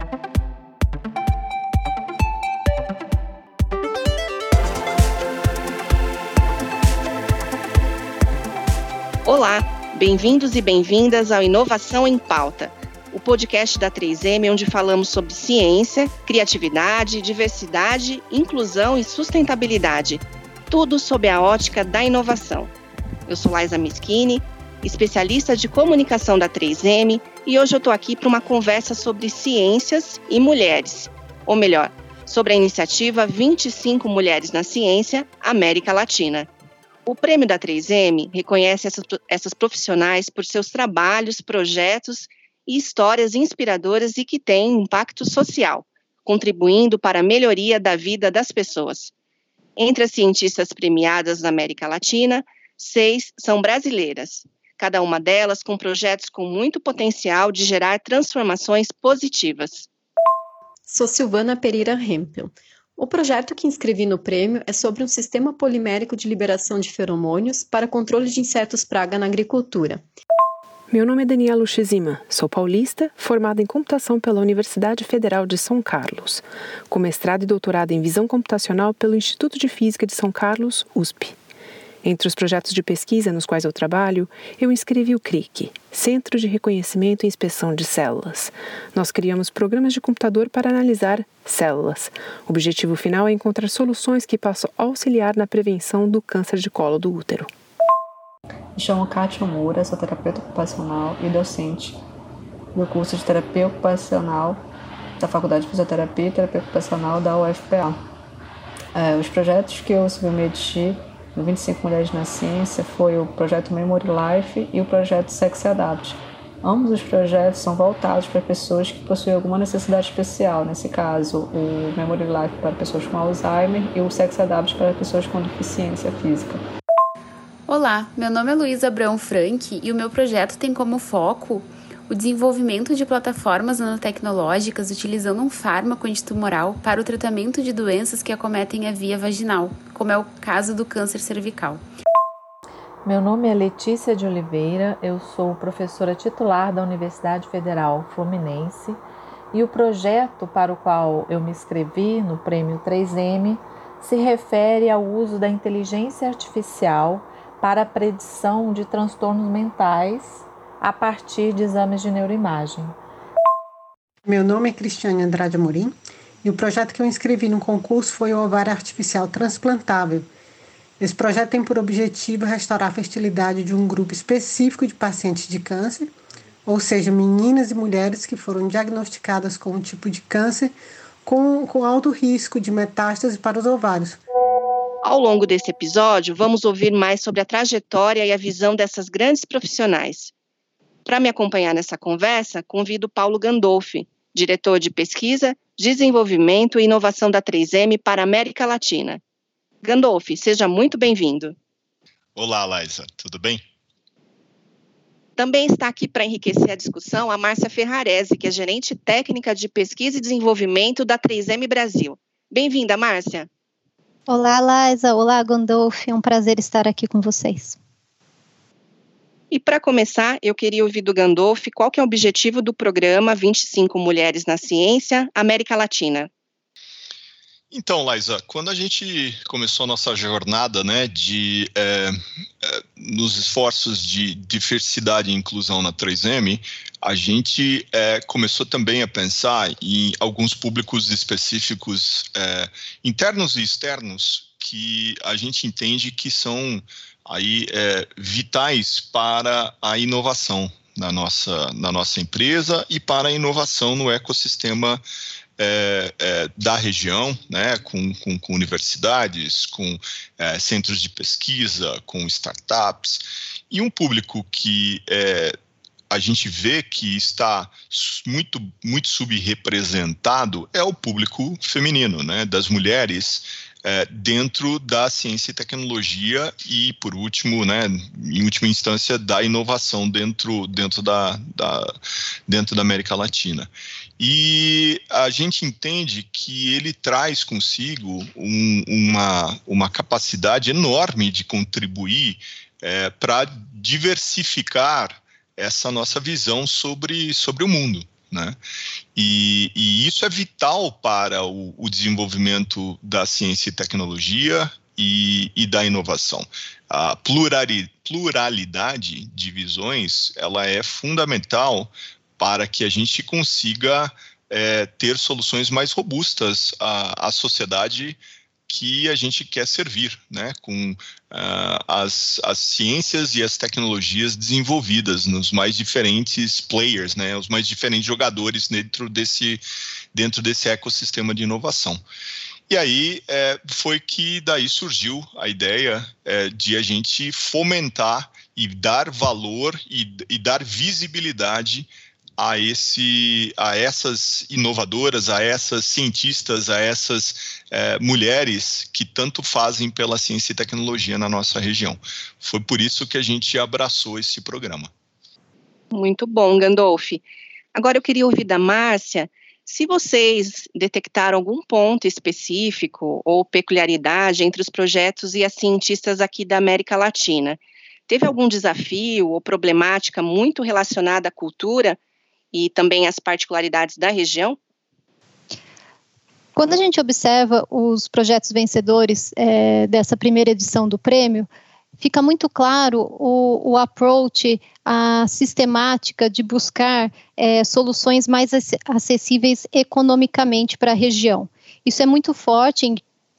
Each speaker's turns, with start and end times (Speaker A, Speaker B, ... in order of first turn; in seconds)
Speaker A: 9.2-22.7, 23.3-36.5, 37.0-49.1, 49.8-59.9, 185.0-190.3, 191.1-199.2, 199.8-201.5, 205.4-213.5, 219.5-226.3, 355.9-372.0, 372.5-374.6
Speaker B: 60.9-70.0
Speaker C: 70.9-81.3, 82.0-97.5
Speaker D: 98.8-102.0, 102.7-104.6, 105.2-108.0, 108.9-126.6
Speaker E: 127.7-141.8
Speaker F: 143.0-149.0, 149.5-162.9
Speaker G: 164.2-170.3, 171.0-176.1, 176.7-184.2
Speaker H: 202.3-203.6, 227.7-255.0, 255.6-265.5, 266.1-281.9, 282.5-298.6, 299.1-329.6, 330.1-332.0, 332.7-354.9
Speaker I: 214.3-217.8, 376.6-381.5, 382.0-393.0